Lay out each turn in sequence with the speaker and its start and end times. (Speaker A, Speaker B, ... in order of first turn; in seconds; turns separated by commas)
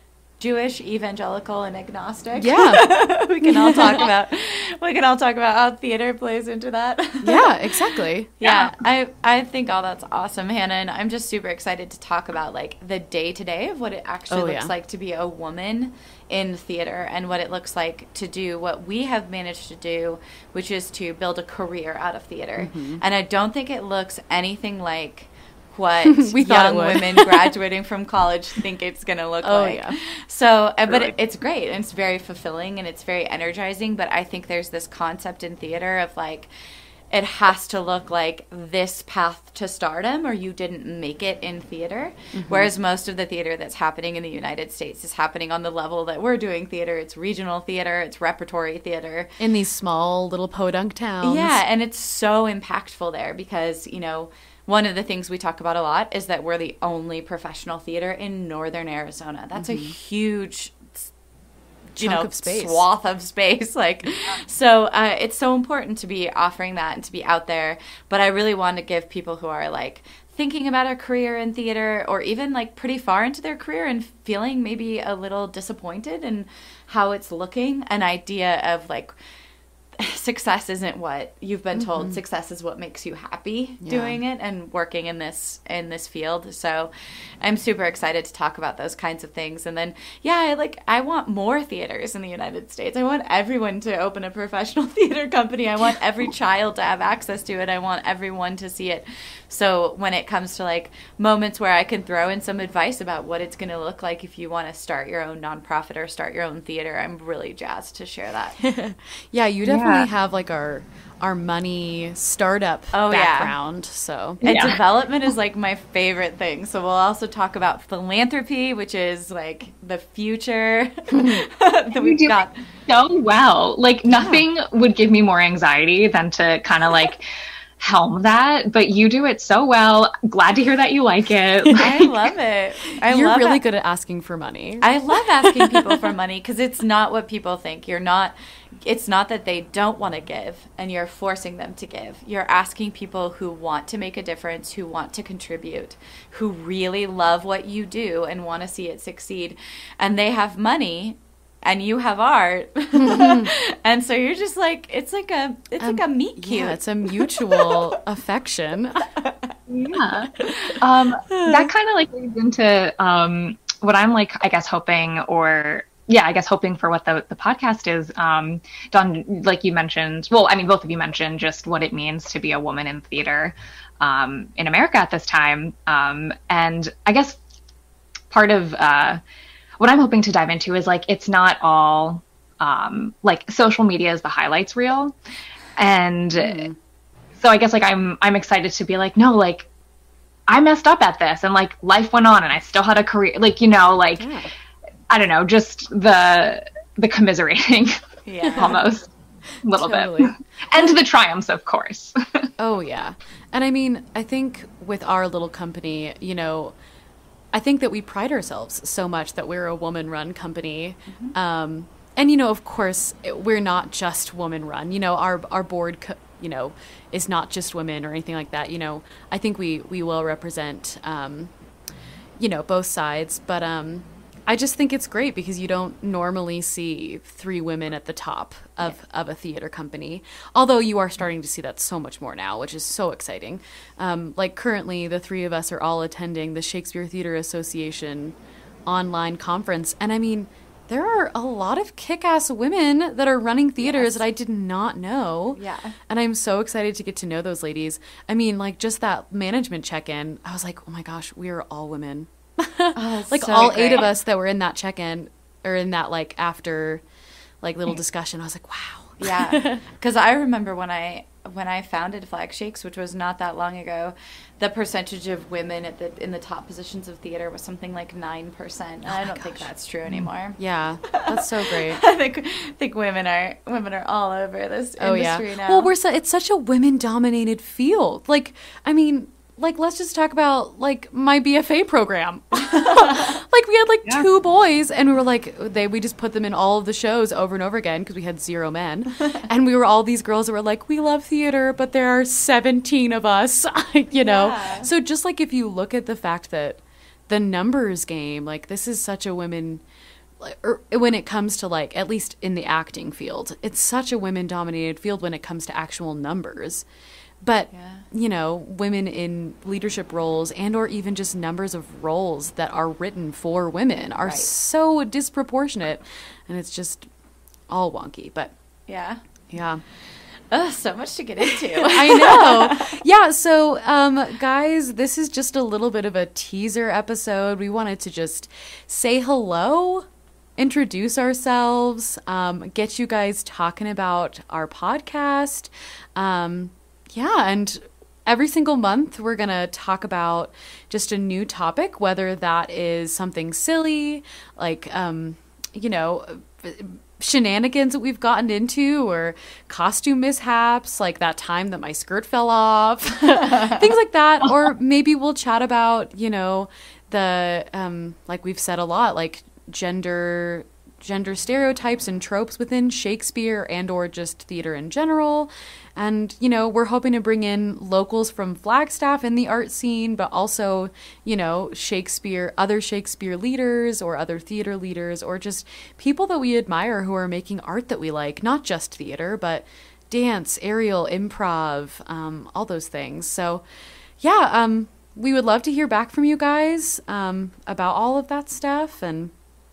Speaker A: 0.4-7.7, Speaker B: 2.4-2.9, Speaker B: 3.4-4.0, Speaker B: 7.2-8.3, Speaker A: 8.4-36.5, Speaker B: 14.3-14.7, Speaker B: 22.6-23.0, Speaker B: 26.1-27.3, Speaker B: 29.4-29.9, Speaker A: 37.1-49.3, Speaker B: 42.3-42.7, Speaker B: 49.4-51.6, Speaker A: 51.2-61.1, Speaker B: 59.5-59.9, Speaker A: 62.0-79.1, Speaker B: 62.0-62.9, Speaker A: 80.0-108.6, Speaker B: 81.8-82.2, Speaker B: 83.8-84.2, Speaker B: 108.6-114.4, Speaker C: 109.7-110.1, Speaker A: 112.9-113.5, Speaker C: 114.4-114.7, Speaker A: 114.4-122.5, Speaker B: 121.1-121.4, Speaker C: 122.0-127.2, Speaker C: 127.8-132.1, Speaker A: 131.7-133.6, Speaker B: 133.1-134.9, Speaker A: 134.8-138.3, Speaker A: 138.8-157.9, Speaker B: 152.9-153.5, Speaker B: 155.8-159.0, Speaker A: 159.2-159.5, Speaker C: 159.7-177.4, Speaker A: 160.4-160.7, Speaker B: 161.3-161.7, Speaker C: 178.3-179.2, Speaker C: 179.8-185.1, Speaker C: 185.8-186.7, Speaker B: 186.3-186.7, Speaker C: 187.4-189.7, Speaker C: 190.5-194.3, Speaker B: 194.2-194.5, Speaker C: 195.1-197.9, Speaker A: 198.2-198.8, Speaker C: 198.6-199.1, Speaker C: 199.6-202.1, Speaker B: 199.7-200.3, Speaker B: 202.6-206.7, Speaker B: 207.5-221.5, Speaker B: 222.4-257.0, Speaker A: 243.8-244.2, Speaker A: 245.6-245.9, Speaker A: 252.9-254.1, Speaker B: 257.6-259.8, Speaker A: 259.2-270.6, Speaker B: 269.1-272.0, Speaker A: 271.9-275.9, Speaker B: 275.0-299.8, Speaker A: 282.6-283.3, Speaker A: 294.1-294.9, Speaker B: 300.4-306.8, Speaker B: 307.4-317.1, Speaker A: 307.7-308.0, Speaker A: 314.2-314.5, Speaker B: 317.7-318.5, Speaker A: 318.9-319.2, Speaker B: 319.5-319.8, Speaker A: 320.5-322.9, Speaker B: 321.9-330.1, Speaker B: 330.6-383.6, Speaker B: 384.2-389.3